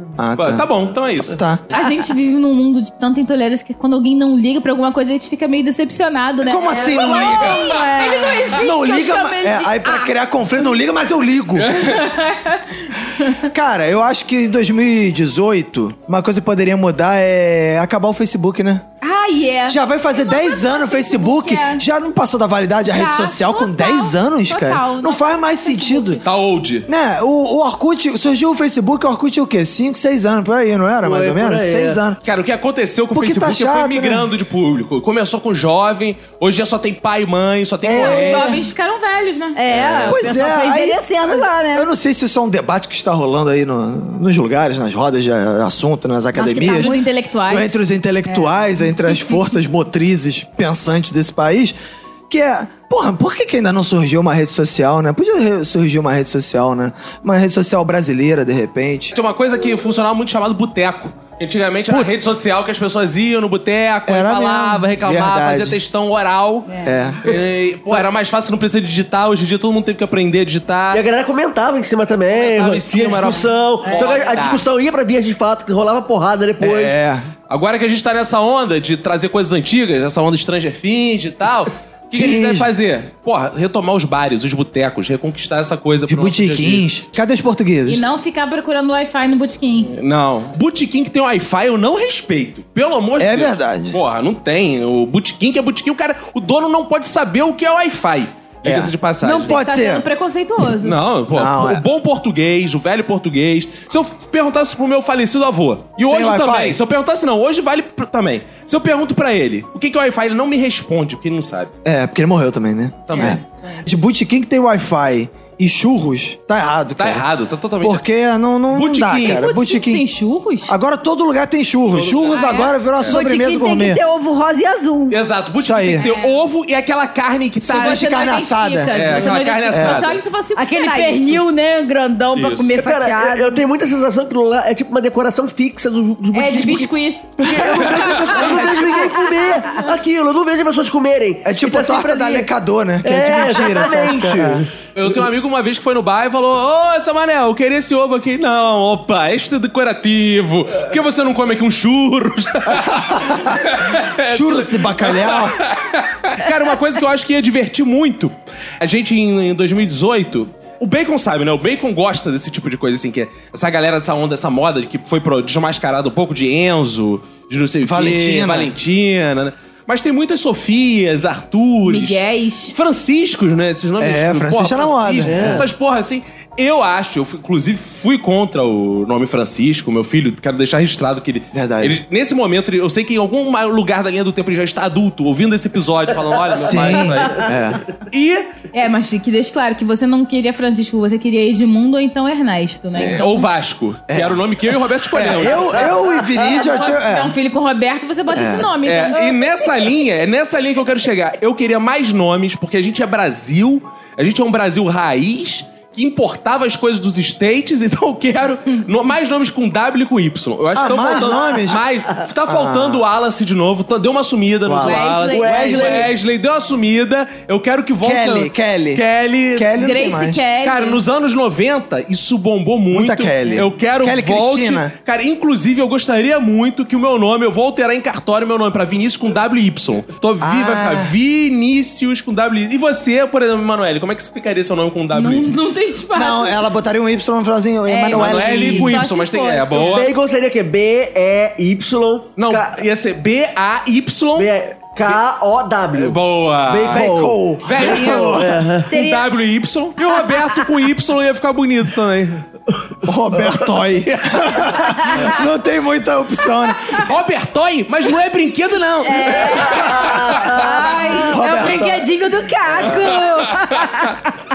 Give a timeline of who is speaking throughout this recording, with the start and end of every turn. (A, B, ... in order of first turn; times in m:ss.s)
0:00.2-0:00.6 A
0:00.4-0:01.4 B
0:01.2-0:01.6 A
0:01.7-0:10.1 C
0:06.4-0:07.8 A
0:06.8-0:08.5 D
0:08.6-0:11.8 A
0:11.6-0:12.0 B
0:11.8-0:13.4 C
0:13.4-0:18.8 A
0:19.0-0:21.8 C
0:19.7-0:26.2 A
0:22.9-0:26.2 C
0:26.2-0:26.9 B
0:26.8-0:32.2 A
0:31.0-0:32.0 E
0:32.2-0:38.6 B
0:33.1-0:34.3 A
0:37.8-0:38.5 A
0:38.0-0:38.5 D
0:38.1-0:39.6 C
0:39.6-0:41.9 D
0:39.7-0:40.2 B
0:40.1-0:47.0 A
0:46.4-0:47.0 D
0:46.7-0:47.7 C
0:47.5-0:51.8 A
0:52.3-0:59.1 A
0:59.1-1:06.7 B
1:04.1-1:05.8 A
1:06.8-1:07.3 A
1:07.2-1:11.0 B
1:10.9-1:16.9 E
1:12.3-1:14.6 B
1:16.6-1:17.2 A
1:17.5-1:26.9 B
1:22.1-1:22.7 A
1:26.1-1:28.0 A
1:27.8-1:29.9 C
1:29.9-1:39.6 B
1:33.2-1:34.0 A
1:38.6-1:40.0 A
1:39.3-1:41.0 C
1:40.8-1:51.7 B
1:41.3-1:41.8 A
1:46.1-1:46.8 A
1:51.8-1:57.2 A
1:53.1-1:53.4 B
1:53.1-1:53.8 C
1:57.0-1:58.0 B
1:57.8-2:00.0 A
1:58.7-1:59.4 B
1:59.2-2:00.7 C
2:00.7-2:04.0 A
2:01.9-2:03.2 B
2:02.3-2:02.7 C
2:03.0-2:05.2 D
2:05.1-2:08.1 B
2:05.6-2:06.0 A
2:06.0-2:06.4 C
2:07.6-2:10.1 A
2:07.7-2:11.4 C
2:08.9-2:10.2 B
2:10.6-2:13.6 D
2:12.3-2:12.7 B
2:12.7-2:22.5 E
2:16.3-2:17.4 C
2:18.0-2:18.6 B
2:21.4-2:24.6 A
2:23.0-2:24.7 E
2:24.9-2:52.2 B
2:32.7-2:33.6 A
2:34.3-2:35.6 A
2:47.8-2:48.7 A
2:51.9-2:52.7 C
2:52.7-3:07.5 B
2:54.0-2:55.7 A
2:55.2-2:55.7 E
3:01.5-3:02.0 A
3:06.6-3:07.8 A
3:08.1-3:08.5 B
3:08.7-3:13.5 C
3:13.0-3:15.9 B
3:14.1-3:14.4 A
3:15.1-3:17.3 A
3:15.5-3:16.1 E
3:16.4-3:19.4 C
3:18.3-3:18.7 A
3:18.8-3:39.8 B
3:30.7-3:31.8 A
3:32.4-3:33.0 A
3:34.6-3:35.7 A
3:34.8-3:35.9 C
3:35.2-3:36.1 E
3:38.0-3:40.4 A
3:39.8-3:41.0 C
3:40.6-3:55.5 B
3:42.9-3:44.9 A
3:50.4-3:51.1 A
3:55.1-3:56.6 C
3:56.1-3:59.0 A
3:57.9-4:00.0 C
3:58.1-4:00.1 B
3:59.9-4:02.8 E
4:02.4-4:04.5 B
4:04.4-4:08.9 E
4:05.9-4:07.1 B
4:06.9-4:08.6 A
4:07.6-4:12.4 B
4:08.8-4:09.3 D
4:13.0-4:17.0 A
4:17.0-4:20.6 B
4:19.0-4:19.9 D
4:19.7-4:21.2 E
4:20.5-4:24.2 D
4:21.3-4:22.0 A
4:22.9-4:24.1 B